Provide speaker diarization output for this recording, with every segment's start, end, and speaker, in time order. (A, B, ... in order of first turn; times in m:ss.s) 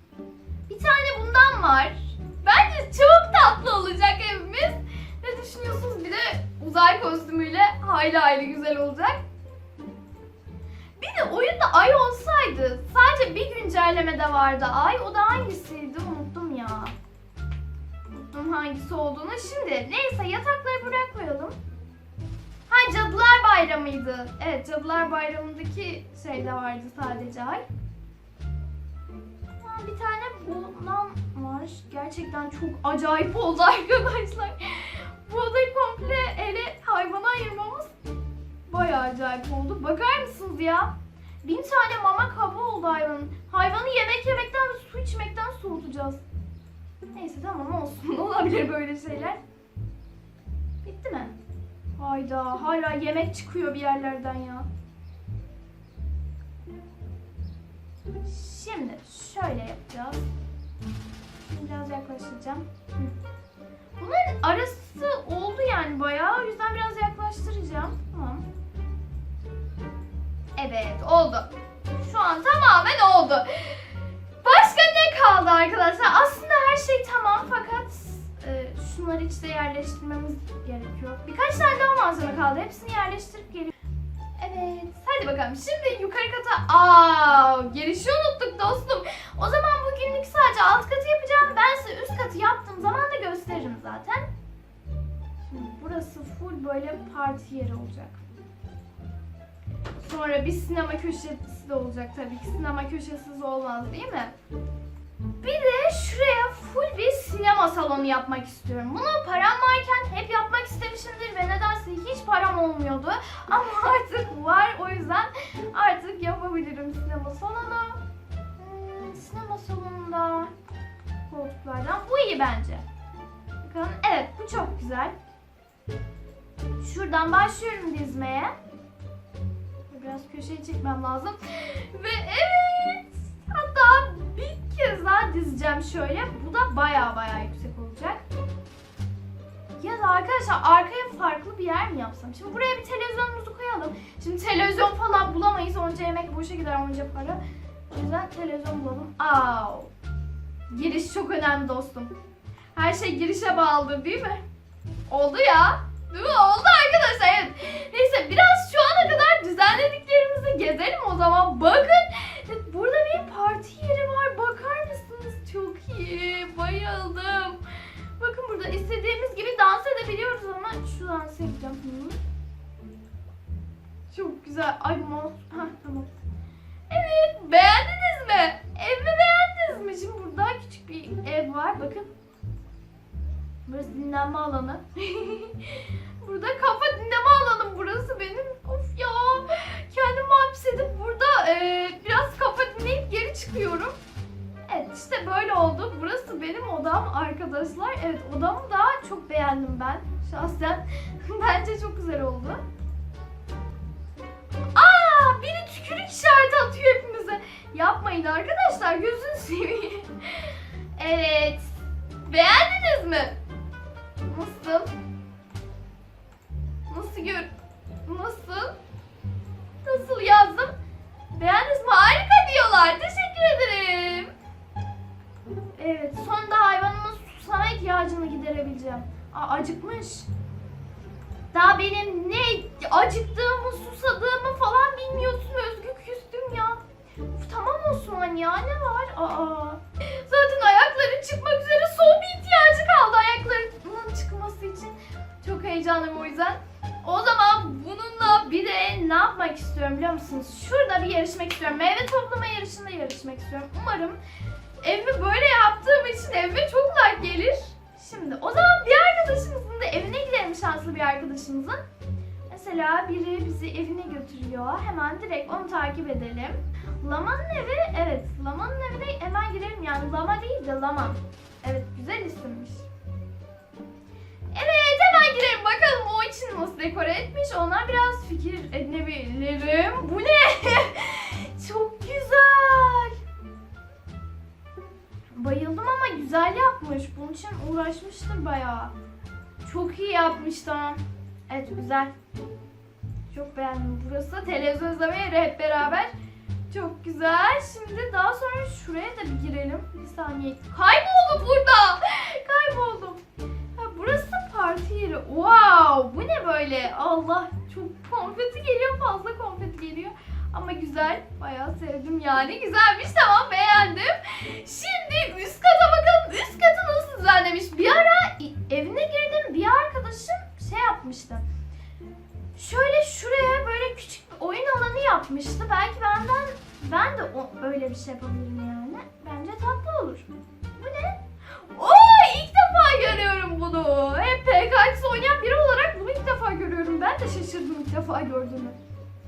0:00.7-0:09.2 A
0:11.0-0:16.9 A
0:18.1-0:21.5 A
0:22.7-0:27.6 A
0:29.6-0:37.9 A
0:38.7-0:46.2 A
0:47.1-0:49.4 A
0:50.8-0:51.3 A
0:52.0-0:54.7 A
0:58.2-1:00.3 A
1:01.4-1:03.1 A
1:04.0-1:08.4 A
1:10.6-1:23.7 A
1:24.4-1:34.3 A
1:35.4-1:38.2 A
1:40.0-1:44.3 A
1:45.4-1:58.0 A
1:58.6-2:00.5 A
2:01.3-2:02.8 A
2:03.6-2:05.1 A
2:06.8-2:08.5 A
2:09.9-2:18.2 A
2:19.8-2:29.9 A
2:30.7-2:32.1 A
2:32.7-2:34.4 A
2:35.1-2:47.6 A
2:48.2-2:52.2 A
2:54.1-2:56.1 A
2:56.9-3:02.1 A
3:03.7-3:13.9 A
3:14.7-3:22.6 A
3:24.7-3:33.4 A
3:34.2-3:34.9 A
3:36.9-3:37.5 A
3:38.0-3:38.8 A
3:39.8-3:40.7 A
3:41.3-3:44.3 A
3:45.8-3:50.3 A
3:51.5-4:14.2 A
4:14.8-4:21.8 A
4:22.5-4:32.9 A
4:34.5-4:43.2 A
4:45.3-4:48.9 A
4:49.6-4:52.1 A
4:53.3-4:56.1 A
4:56.7-5:03.2 A
5:03.8-5:21.4 A
5:22.5-5:38.8 A